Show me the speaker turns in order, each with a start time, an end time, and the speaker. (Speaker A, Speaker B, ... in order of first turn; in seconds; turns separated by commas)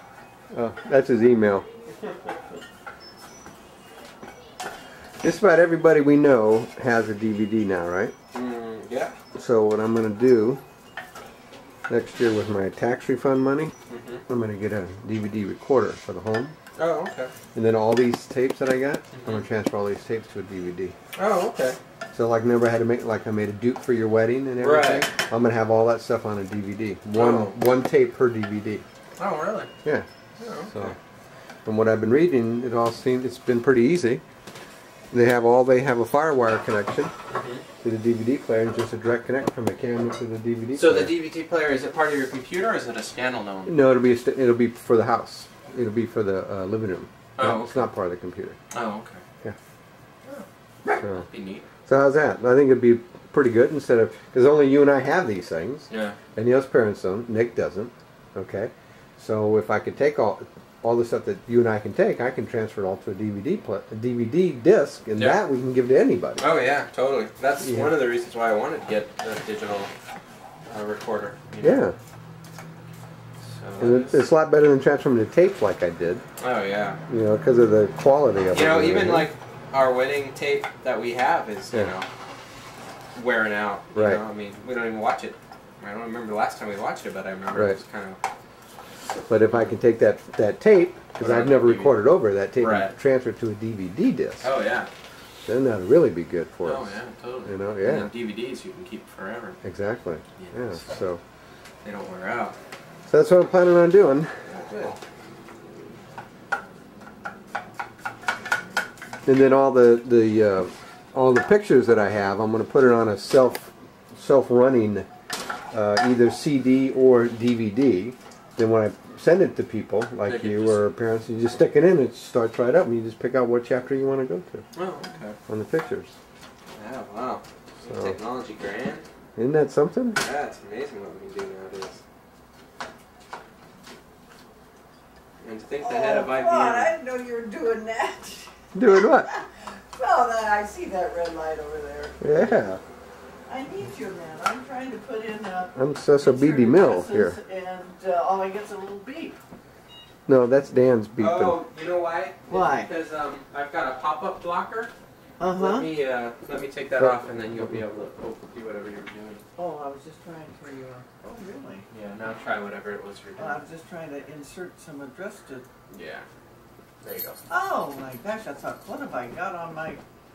Speaker A: 0.5-1.7, Speaker A: 5.2-8.1, Speaker B: 8.3-9.2, Speaker A: 9.3-10.6, Speaker A: 11.9-13.7, Speaker B: 13.9-14.2, Speaker A: 14.3-16.6, Speaker B: 16.7-17.3, Speaker A: 17.5-20.9, Speaker B: 19.1-19.4, Speaker B: 21.1-21.8, Speaker A: 22.1-28.8, Speaker B: 24.6-25.1, Speaker B: 27.1-27.6, Speaker B: 29.2-29.7, Speaker A: 29.8-30.9, Speaker B: 30.4-30.9, Speaker A: 31.6-34.2, Speaker A: 35.1-37.1, Speaker B: 37.3-37.6, Speaker A: 37.8-41.1, Speaker B: 40.7-43.8, Speaker A: 43.6-48.6, Speaker B: 47.4-47.9, Speaker B: 48.7-49.2, Speaker B: 50.3-51.6, Speaker A: 51.0-51.2, Speaker A: 51.9-66.5, Speaker B: 55.9-56.2, Speaker B: 66.4-69.9, Speaker A: 67.6-68.0, Speaker B: 70.7-71.8, Speaker A: 71.6-72.0, Speaker B: 73.4-74.2, Speaker A: 73.8-76.2, Speaker B: 76.4-77.0, Speaker A: 77.1-79.3, Speaker B: 78.5-82.1, Speaker B: 83.1-88.2, Speaker A: 83.9-84.2, Speaker A: 89.3-94.5, Speaker B: 91.2-92.0, Speaker B: 92.6-92.9, Speaker B: 94.4-94.9, Speaker A: 95.5-98.1, Speaker B: 96.6-99.6, Speaker A: 99.6-101.2, Speaker B: 100.4-100.8, Speaker B: 101.8-102.5, Speaker A: 103.1-104.3, Speaker B: 104.5-105.0, Speaker A: 109.2-115.1, Speaker A: 115.7-124.6, Speaker B: 120.2-120.8, Speaker B: 124.7-125.4, Speaker A: 125.5-126.1, Speaker B: 126.7-129.0, Speaker A: 127.9-128.2, Speaker A: 129.3-130.2, Speaker B: 130.2-132.0, Speaker B: 135.4-136.9, Speaker C: 135.8-142.7, Speaker A: 138.7-139.3, Speaker A: 142.2-142.8, Speaker C: 143.5-149.4, Speaker A: 145.7-147.4, Speaker A: 150.3-151.6, Speaker B: 151.2-154.9, Speaker C: 152.5-152.9, Speaker C: 155.4-155.9, Speaker B: 155.5-159.4, Speaker A: 157.0-157.8, Speaker C: 159.6-161.8, Speaker B: 161.9-163.7, Speaker C: 163.4-165.7, Speaker B: 165.9-166.2, Speaker B: 167.0-167.4, Speaker C: 167.5-170.0